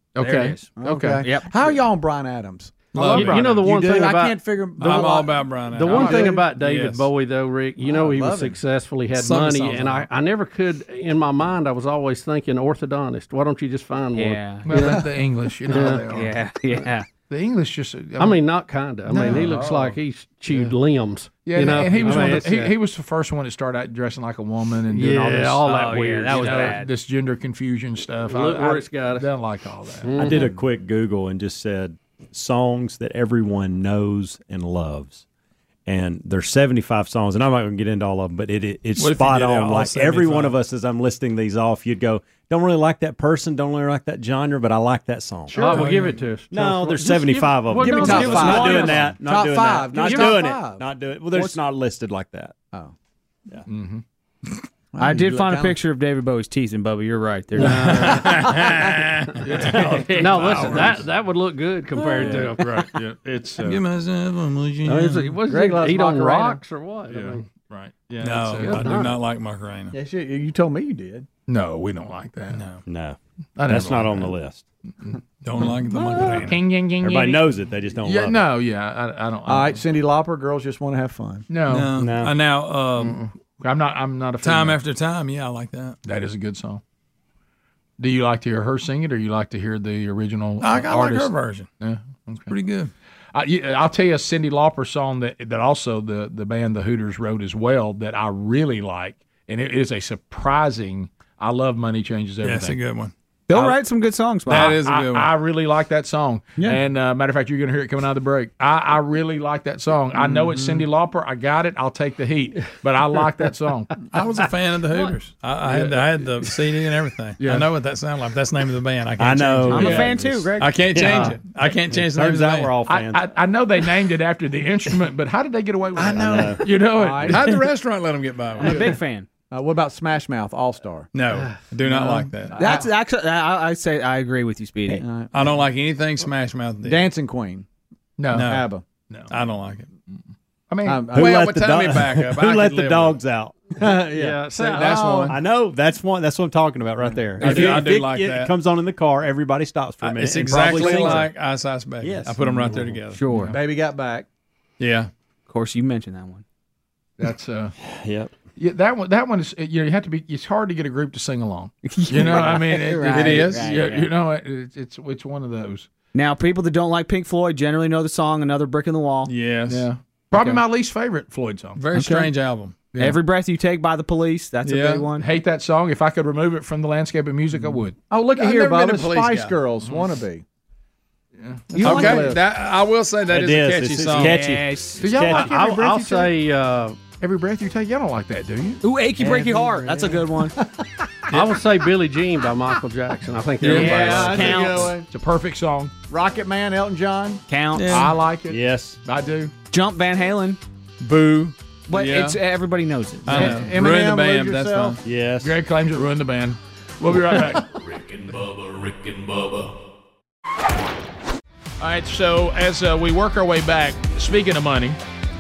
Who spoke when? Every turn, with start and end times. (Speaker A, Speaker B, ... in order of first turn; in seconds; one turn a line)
Speaker A: 0.1-1.2
Speaker B: 0.2-1.7
Speaker C: 0.8-2.8
Speaker D: 2.9-3.6
Speaker A: 3.0-3.6
Speaker E: 3.0-5.1
Speaker C: 3.6-6.4
Speaker D: 4.8-7.0
Speaker E: 5.7-15.0
Speaker C: 7.8-8.6
Speaker D: 9.1-10.1
Speaker B: 14.2-15.0
Speaker A: 14.7-16.4
Speaker E: 15.7-16.1
Speaker B: 15.9-17.1
Speaker A: 17.3-18.4
Speaker E: 18.2-22.7
Speaker A: 19.1-20.0
Speaker A: 21.4-30.2
Speaker E: 24.9-26.8
Speaker B: 25.6-26.9
Speaker E: 28.3-29.3
Speaker E: 30.0-30.5
Speaker F: 30.2-35.2
Speaker C: 30.3-30.6
Speaker F: 35.9-45.8
Speaker D: 39.0-40.6
Speaker A: 45.5-45.9
Speaker E: 45.5-49.1
Speaker D: 45.8-46.1
Speaker F: 46.5-52.5
Speaker C: 47.8-50.8
Speaker B: 47.8-49.1
Speaker E: 50.0-50.4
Speaker A: 53.7-54.0
Speaker C: 54.9-55.8
Speaker B: 55.0-58.7
Speaker E: 57.6-58.6
Speaker D: 57.6-61.0
Speaker A: 59.4-61.0
Speaker E: 59.7-62.7
Speaker A: 62.1-63.8
Speaker D: 63.6-65.4
Speaker E: 64.8-67.4
Speaker C: 65.5-66.6
Speaker A: 67.1-69.0
Speaker D: 68.2-69.9
Speaker E: 68.6-69.2
Speaker C: 69.9-71.3
Speaker A: 71.5-72.6
Speaker D: 72.5-72.8
Speaker F: 72.8-74.6
Speaker A: 73.6-74.3
Speaker D: 75.4-76.6
Speaker A: 76.3-77.5
Speaker F: 77.0-78.5
Speaker A: 78.0-79.8
Speaker C: 79.4-81.5
Speaker A: 81.5-81.9
Speaker D: 81.7-83.2
Speaker F: 82.0-82.3
Speaker A: 83.0-84.8
Speaker D: 84.4-86.0
Speaker A: 86.0-86.8
Speaker A: 88.0-92.5
Speaker D: 90.6-91.7
Speaker D: 92.5-92.9
Speaker A: 93.3-102.8
Speaker D: 102.4-103.1
Speaker B: 103.5-104.8
Speaker A: 104.5-113.9
Speaker D: 104.5-105.3
Speaker D: 114.1-122.8
Speaker A: 117.4-117.7
Speaker F: 119.2-120.4
Speaker B: 119.7-120.8
Speaker A: 119.8-120.1
Speaker F: 120.9-121.2
Speaker E: 121.0-121.3
Speaker F: 122.0-123.2
Speaker A: 122.8-127.6
Speaker F: 126.0-126.7
Speaker D: 126.1-126.4
Speaker C: 126.9-127.5
Speaker D: 127.2-128.9
Speaker B: 128.6-129.2
Speaker C: 129.5-131.1
Speaker D: 131.1-132.8
Speaker E: 131.3-131.6
Speaker C: 131.8-132.8
Speaker B: 132.5-135.0
Speaker C: 134.9-135.5
Speaker D: 135.3-137.1
Speaker C: 136.8-137.7
Speaker A: 138.2-138.6
Speaker D: 138.3-138.6
Speaker C: 138.3-138.8
Speaker D: 139.3-139.9
Speaker A: 140.1-141.1
Speaker C: 140.8-141.5
Speaker D: 141.1-143.2
Speaker F: 141.1-143.7
Speaker C: 143.8-145.4
Speaker E: 144.1-145.2
Speaker D: 144.5-145.4
Speaker F: 145.3-151.3
Speaker C: 147.0-147.6
Speaker D: 147.4-148.5
Speaker A: 147.4-147.7
Speaker D: 150.0-153.2
Speaker E: 150.7-151.2
Speaker F: 152.0-152.4
Speaker B: 153.1-153.6
Speaker C: 153.5-154.2
Speaker D: 154.8-155.1
Speaker B: 155.5-156.4
Speaker A: 157.2-157.7
Speaker F: 157.8-158.3
Speaker A: 158.6-165.9
Speaker B: 161.8-164.1
Speaker D: 163.1-163.8
Speaker B: 166.1-169.3
Speaker D: 169.2-169.9
Speaker A: 169.7-171.8
Speaker D: 171.8-172.9
Speaker B: 171.9-172.3
Speaker B: 173.0-175.3
Speaker D: 174.6-175.1
Speaker A: 175.2-177.9
Speaker C: 178.1-180.4
Speaker D: 178.2-179.6
Speaker A: 181.4-182.0
Speaker C: 181.7-182.4
Speaker B: 181.8-182.3
Speaker D: 181.8-184.5
Speaker F: 183.3-185.5
Speaker B: 184.2-185.2
Speaker A: 185.0-186.3
Speaker E: 185.2-187.0
Speaker A: 187.2-188.8
Speaker B: 188.8-190.5
Speaker C: 189.2-191.5
Speaker E: 191.3-194.7
Speaker D: 193.6-194.5
Speaker B: 193.6-195.0
Speaker C: 193.7-195.1
Speaker A: 195.1-195.9
Speaker C: 196.1-197.4
Speaker B: 197.5-198.1
Speaker D: 197.7-198.2
Speaker A: 197.9-199.5
Speaker F: 198.5-199.0
Speaker B: 199.7-200.6
Speaker D: 201.0-202.4
Speaker B: 201.9-203.7
Speaker D: 203.2-205.0
Speaker C: 203.3-205.0
Speaker F: 205.0-205.5
Speaker A: 205.4-207.7
Speaker G: 207.6-209.7
Speaker A: 211.8-215.0